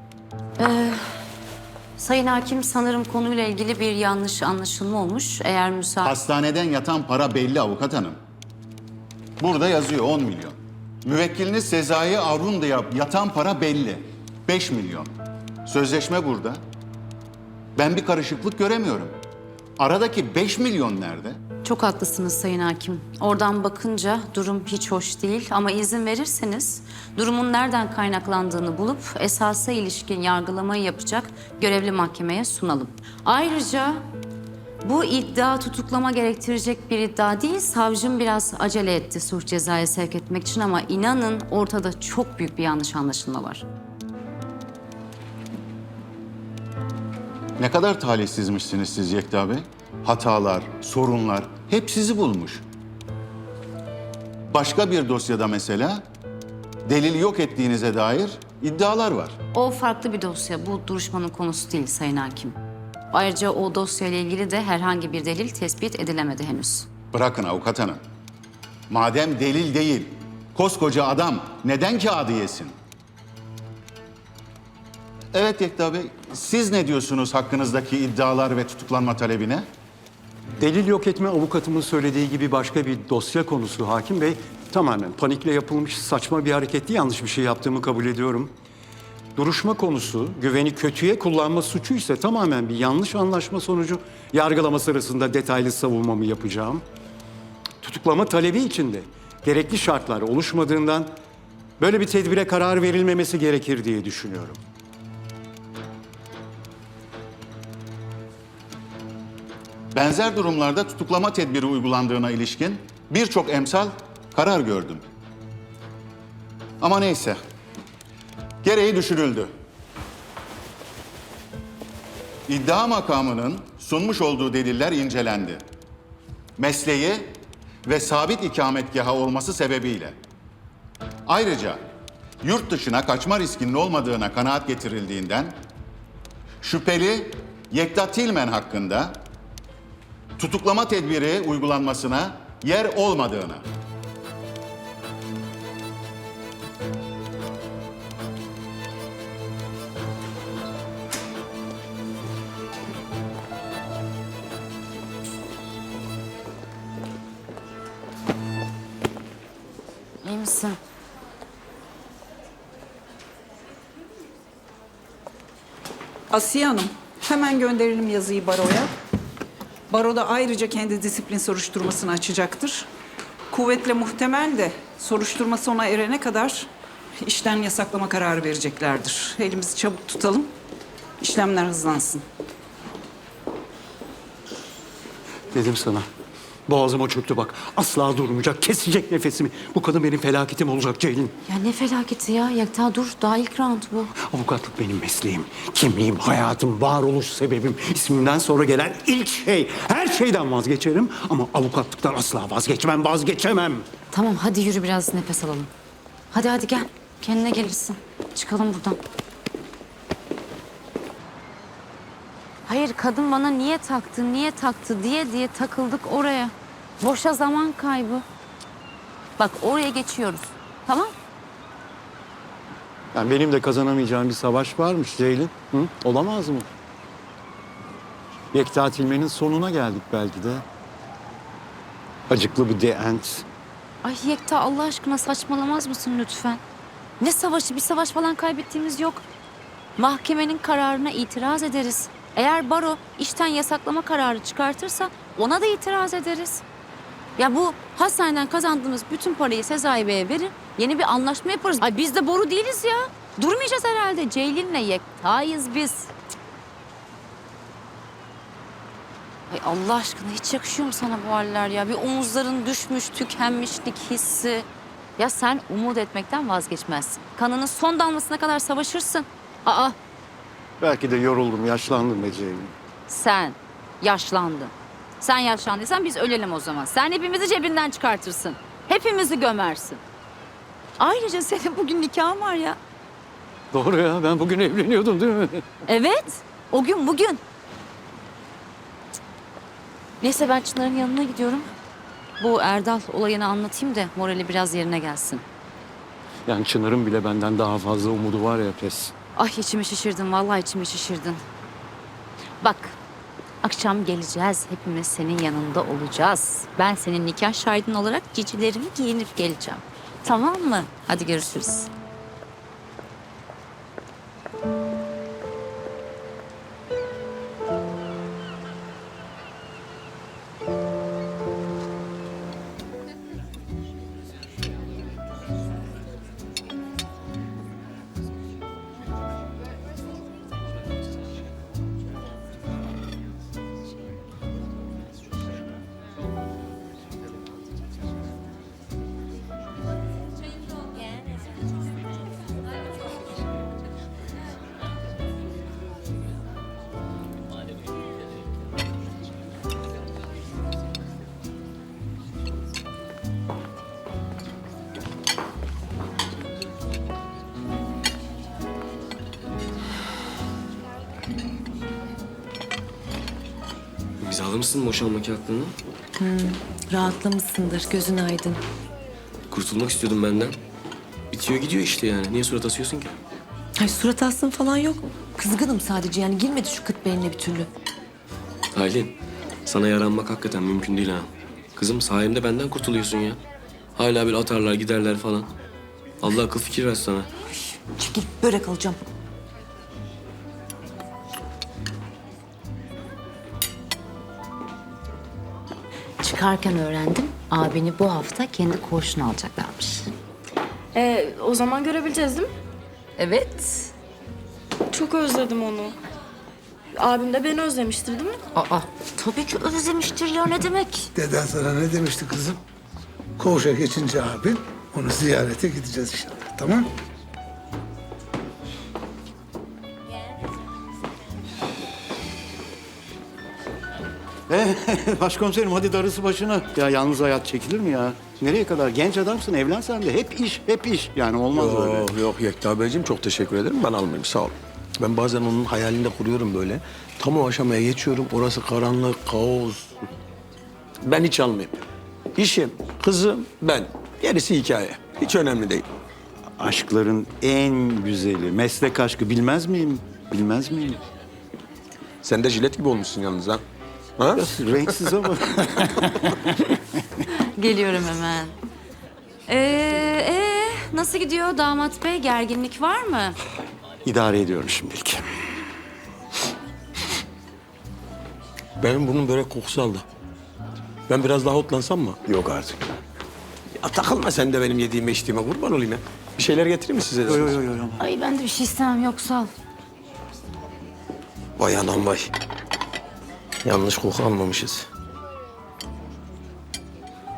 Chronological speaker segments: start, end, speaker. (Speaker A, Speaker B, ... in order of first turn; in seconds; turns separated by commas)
Speaker A: 0.6-1.1, Speaker A: 2.0-6.1, Speaker B: 6.0-8.2, Speaker B: 9.4-15.1, Speaker B: 15.7-16.6, Speaker B: 17.8-19.1, Speaker B: 19.8-21.4, Speaker A: 21.6-34.0, Speaker A: 34.8-43.6, Speaker B: 47.6-52.6, Speaker B: 54.5-56.0, Speaker B: 56.9-59.4, Speaker A: 59.5-62.6, Speaker A: 63.1-66.9, Speaker B: 67.1-68.0, Speaker B: 68.9-72.8, Speaker B: 75.3-79.7, Speaker C: 80.6-88.5, Speaker C: 89.4-96.8, Speaker C: 97.8-101.1, Speaker C: 101.8-104.6, Speaker B: 109.9-115.0, Speaker B: 116.8-117.4, Speaker B: 118.6-119.5, Speaker B: 122.5-125.6, Speaker B: 126.6-130.2, Speaker B: 131.3-131.8, Speaker B: 132.4-135.6, Speaker B: 136.6-139.2, Speaker B: 140.4-143.6, Speaker A: 160.2-160.8, Speaker D: 166.3-168.9, Speaker D: 169.9-172.9, Speaker D: 173.5-176.7, Speaker D: 177.2-180.5, Speaker D: 181.2-182.2, Speaker C: 185.5-186.1, Speaker C: 186.7-191.3, Speaker A: 191.5-194.1, Speaker C: 194.2-203.8, Speaker A: 204.1-205.7, Speaker A: 206.3-209.0, Speaker A: 212.7-218.2, Speaker A: 219.4-221.1, Speaker C: 223.1-226.7, Speaker C: 228.5-230.6, Speaker C: 232.3-233.5, Speaker A: 234.0-236.6, Speaker A: 237.2-239.2, Speaker A: 240.0-246.6, Speaker A: 247.4-256.1, Speaker A: 259.5-264.7, Speaker A: 265.2-270.0, Speaker C: 270.8-272.7, Speaker A: 273.1-280.0, Speaker A: 281.0-282.8, Speaker C: 283.7-285.6, Speaker A: 285.9-287.4, Speaker A: 290.2-291.7, Speaker A: 292.4-295.4, Speaker C: 296.5-299.1, Speaker A: 299.4-301.4, Speaker A: 302.6-303.0, Speaker A: 303.6-311.9, Speaker E: 364.2-365.7, Speaker F: 366.2-368.6, Speaker E: 369.5-370.6, Speaker E: 371.3-373.1, Speaker F: 373.8-377.7, Speaker E: 378.7-379.1, Speaker E: 379.7-383.4, Speaker E: 384.0-385.5, Speaker E: 386.2-387.3, Speaker F: 388.0-388.8, Speaker A: 396.2-400.1, Speaker G: 400.9-402.5, Speaker A: 403.2-403.9, Speaker G: 404.9-405.9, Speaker G: 406.9-408.4, Speaker A: 408.6-411.1, Speaker H: 411.1-412.6, Speaker H: 413.4-416.9, Speaker C: 424.5-432.1, Speaker I: 431.5-440.0, Speaker I: 441.0-441.8, Speaker I: 442.4-445.9, Speaker C: 446.6-451.0, Speaker I: 452.2-453.6, Speaker I: 454.2-455.3, Speaker C: 454.3-456.4, Speaker A: 457.3-458.6, Speaker A: 459.5-463.4, Speaker C: 464.1-465.2, Speaker I: 468.8-470.1, Speaker I: 471.1-472.2, Speaker C: 472.3-472.9, Speaker I: 473.8-477.6, Speaker C: 477.3-478.0, Speaker A: 478.0-479.5, Speaker I: 481.6-482.3, Speaker I: 483.6-484.9